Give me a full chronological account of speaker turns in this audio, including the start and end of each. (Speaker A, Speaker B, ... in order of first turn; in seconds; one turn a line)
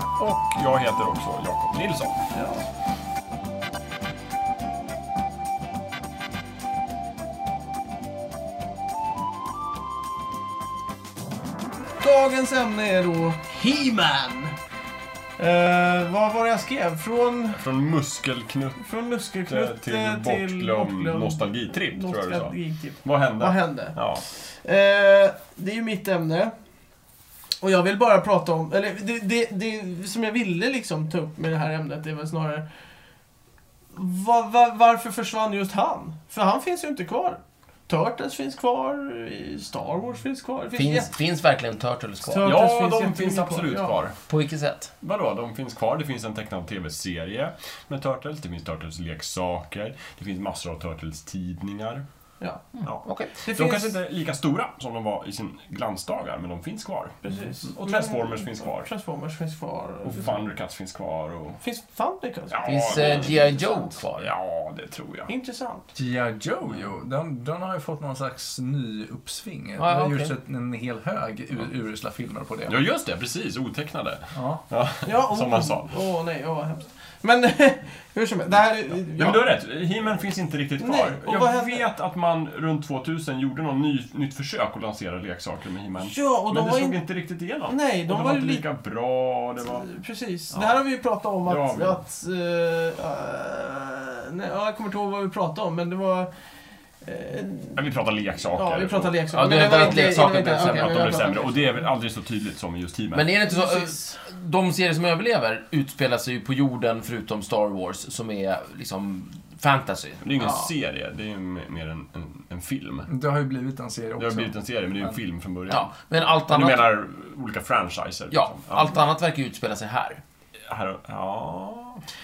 Speaker A: 0.2-2.2
Speaker B: 2.3-2.6
Speaker B: 12.0-14.5
Speaker B: 15.4-17.6
Speaker A: 17.5-18.8
Speaker B: 18.8-26.5
Speaker A: 19.5-24.2
Speaker B: 27.6-32.6
Speaker B: 33.9-41.1
Speaker C: 40.8-42.5
Speaker B: 42.3-44.0
Speaker A: 42.4-44.1
Speaker C: 44.3-44.9
Speaker A: 45.0-52.0
Speaker B: 52.4-52.7
Speaker A: 52.8-58.9
Speaker C: 53.0-53.3
Speaker B: 53.4-54.0
Speaker B: 57.2-60.4
Speaker A: 60.0-61.6
Speaker B: 61.6-63.9
Speaker A: 62.5-63.4
Speaker C: 62.6-64.3
Speaker A: 64.2-65.3
Speaker B: 65.3-65.9
Speaker D: 65.9-72.8
Speaker C: 69.8-70.3
Speaker A: 72.7-75.9
Speaker D: 74.3-74.6
Speaker B: 75.0-79.5
Speaker A: 79.2-89.8
Speaker B: 80.8-81.9
Speaker B: 86.0-87.0
Speaker B: 87.7-88.6
Speaker B: 89.8-96.3
Speaker A: 91.5-92.0
Speaker B: 97.0-97.8
Speaker A: 97.8-103.2
Speaker B: 98.5-101.7
Speaker C: 99.3-101.3
Speaker C: 103.1-110.2
Speaker B: 103.5-104.2
Speaker A: 110.2-113.1
Speaker B: 110.4-110.7
Speaker D: 113.1-114.5
Speaker A: 114.2-119.0
Speaker C: 115.7-116.9
Speaker C: 118.3-120.2
Speaker A: 120.7-122.0